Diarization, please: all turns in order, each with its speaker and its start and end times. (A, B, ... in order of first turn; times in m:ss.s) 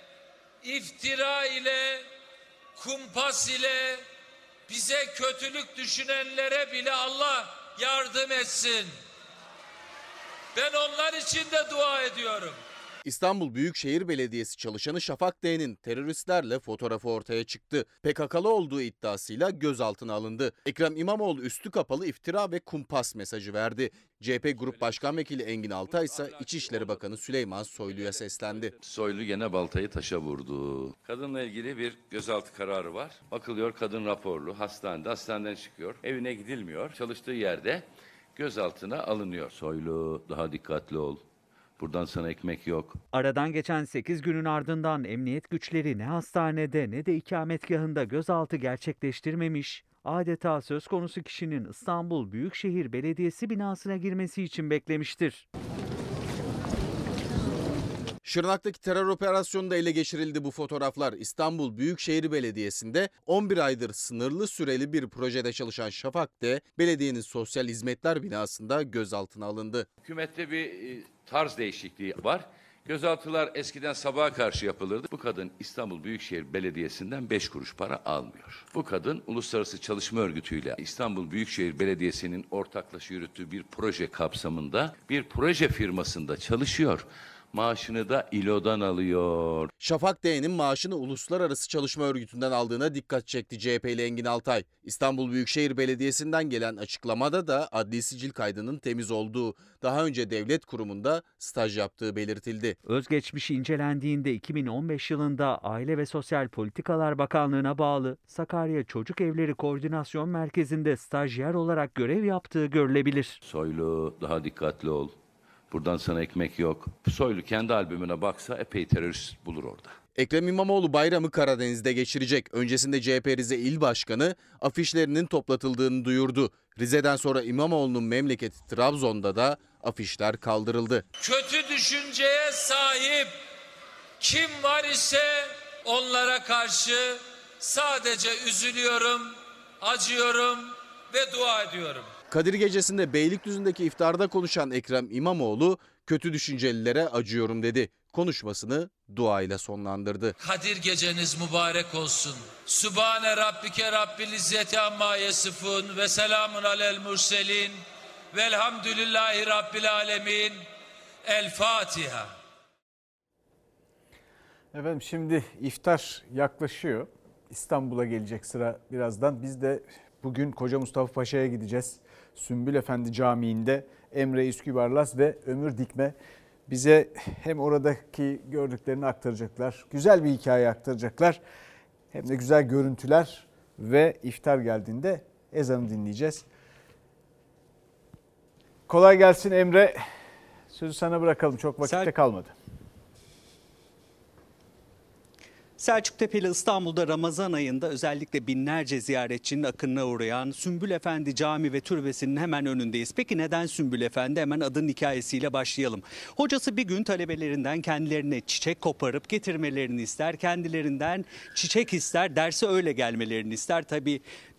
0:00.6-0:02.0 A
0:02.8-0:04.0 A
0:04.7-0:09.0 A
0:10.6-0:12.6 A
0:13.1-0:28.7 B
0:28.8-0:41.2 C
0:41.8-0:43.0 C
0:43.1-0:55.5 D
0:58.2-1:09.9 B
1:10.0-1:29.7 C
1:29.8-1:42.8 B
1:42.8-1:53.4 D
1:53.4-1:55.1 C
1:55.7-2:00.0 C
2:00.2-2:11.0 B
2:11.2-2:13.4 A
2:14.2-2:22.1 A
2:22.3-2:30.3 B
2:30.4-2:37.8 A
2:38.3-2:40.6 A
2:41.3-2:42.3 A
2:44.7-2:56.2 E
2:56.7-3:01.4 E
3:02.1-3:06.5 E
3:08.9-3:10.0 E
3:10.7-3:12.5 E
3:11.8-3:12.1 F
3:15.8-3:34.2 F